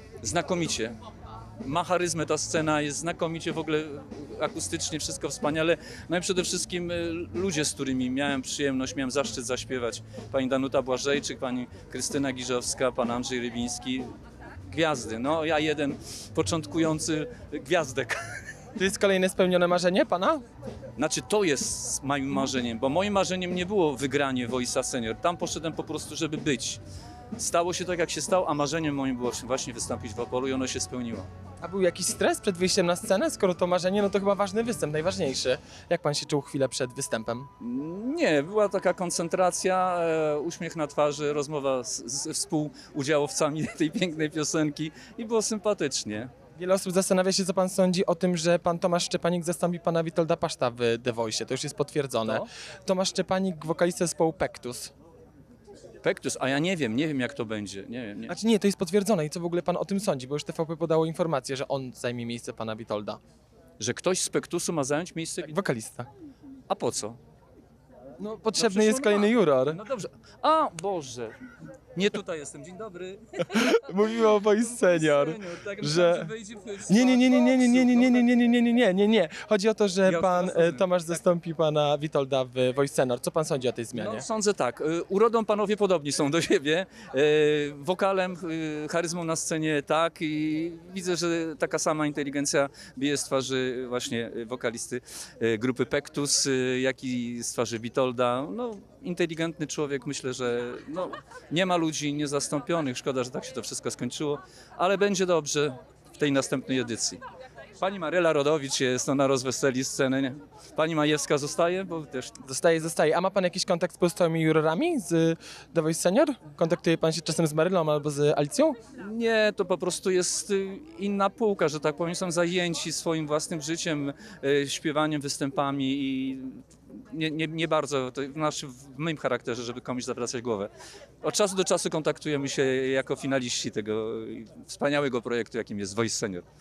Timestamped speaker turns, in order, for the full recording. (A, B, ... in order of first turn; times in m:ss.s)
0:00.2-0:01.0 A
0:01.6-0:14.1 A
0:14.7-0:18.3 A
0:18.8-0:20.4 B
0:21.0-0:26.8 A
0:27.4-0:31.3 A
0:31.6-0:37.5 B
0:37.6-0:46.3 A
0:46.6-0:54.9 B
0:56.0-0:58.3 A
0:58.3-1:03.2 B
1:03.8-1:05.6 A
1:05.4-1:06.1 B
1:06.7-1:07.2 A
1:08.2-1:09.8 B
1:08.5-1:11.4 A
1:11.9-1:18.3 A
1:13.4-1:16.3 B
1:16.8-1:24.2 B
1:20.0-1:20.9 A
1:23.9-1:47.2 A
1:47.8-1:52.4 A
1:52.4-1:58.8 B
1:58.9-2:10.7 A
2:11.2-2:16.4 A